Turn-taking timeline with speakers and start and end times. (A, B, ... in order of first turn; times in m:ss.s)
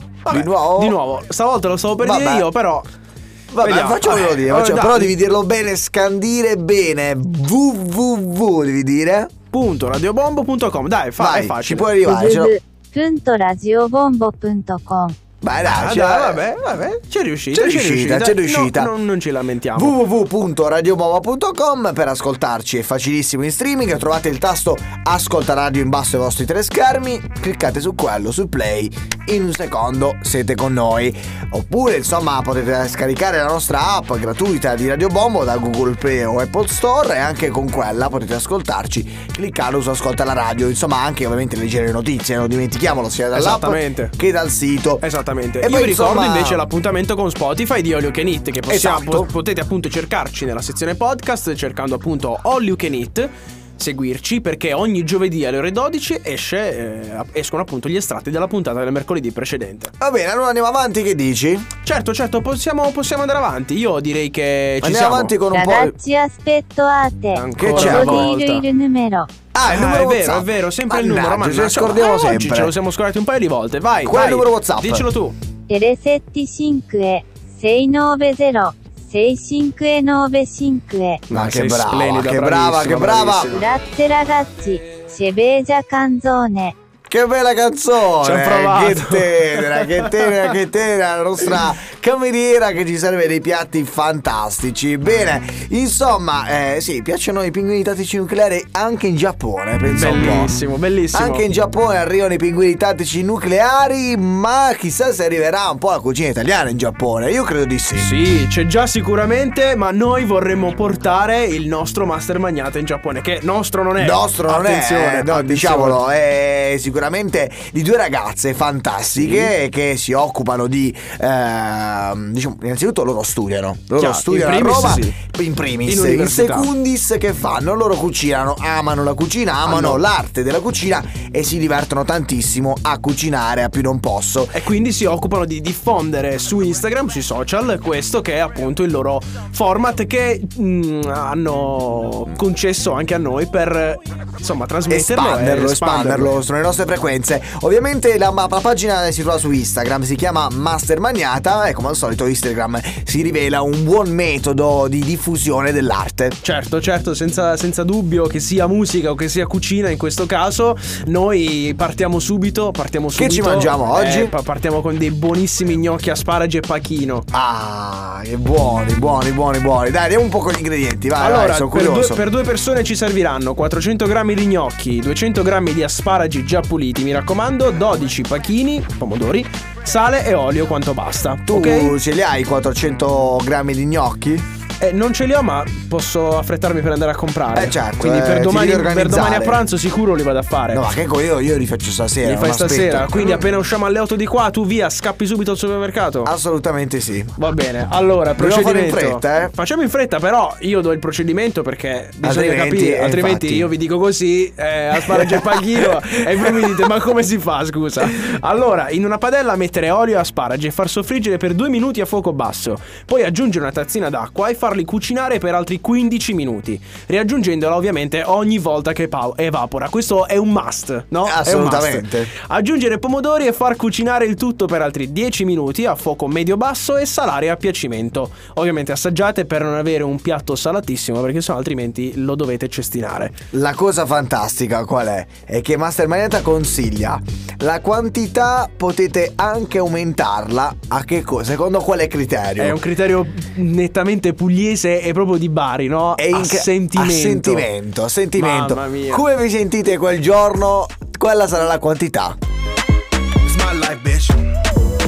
0:00.2-0:02.9 A
0:00.3-0:01.0 B
0:02.0-0:02.5 B
0:03.5-0:09.3 B
0:03.6-0:05.1 A
0:09.5-0:11.9 A
0:11.2-0:12.5 B
0:12.0-0:15.2 C
0:15.4-0:16.4 B
0:15.6-0:20.0 A
0:17.5-0:18.9 B
0:19.8-0:45.0 B
0:43.3-0:44.1 A
0:45.0-0:59.9 A
0:45.6-0:46.6 B
0:48.7-0:49.3 B
1:00.0-1:01.7 B
1:01.8-1:05.4 A
1:04.8-1:06.0 B
1:05.5-1:09.3 C
1:07.3-1:08.6 A
1:07.6-1:08.3 B
1:09.5-1:12.7 B
1:09.6-1:15.4 A
1:14.0-1:15.1 B
1:15.7-1:21.2 C
1:21.3-1:23.7 A
1:21.3-1:23.5 B
1:23.5-1:26.8 C
1:27.1-1:40.6 B
1:28.2-1:30.5 A
1:39.9-1:41.4 A
1:41.1-1:48.1 B
1:47.9-1:56.0 A
1:54.0-2:14.6 B
1:59.2-1:59.5 A
2:04.0-2:05.2 A
2:05.8-2:06.7 A
2:09.6-2:10.0 A
2:14.5-2:26.3 A
2:24.9-2:36.4 B
2:36.4-2:47.2 A
2:43.1-2:44.3 B
2:47.3-2:52.2 B
2:51.2-3:02.0 A
3:01.5-3:04.4 B
3:04.8-3:10.9 A
3:07.5-3:09.6 B
3:10.7-3:13.4 B
3:12.2-3:16.3 A
3:16.2-3:17.4 B
3:17.4-3:53.3 A
3:18.4-3:19.5 B
3:22.2-3:23.7 B
3:25.0-3:25.9 B
3:26.4-3:26.8 B
3:41.2-3:42.3 B
3:53.5-4:02.8 B
4:02.6-4:07.7 A
4:06.2-4:12.4 B
4:08.4-4:09.2 A
4:13.4-4:14.5 A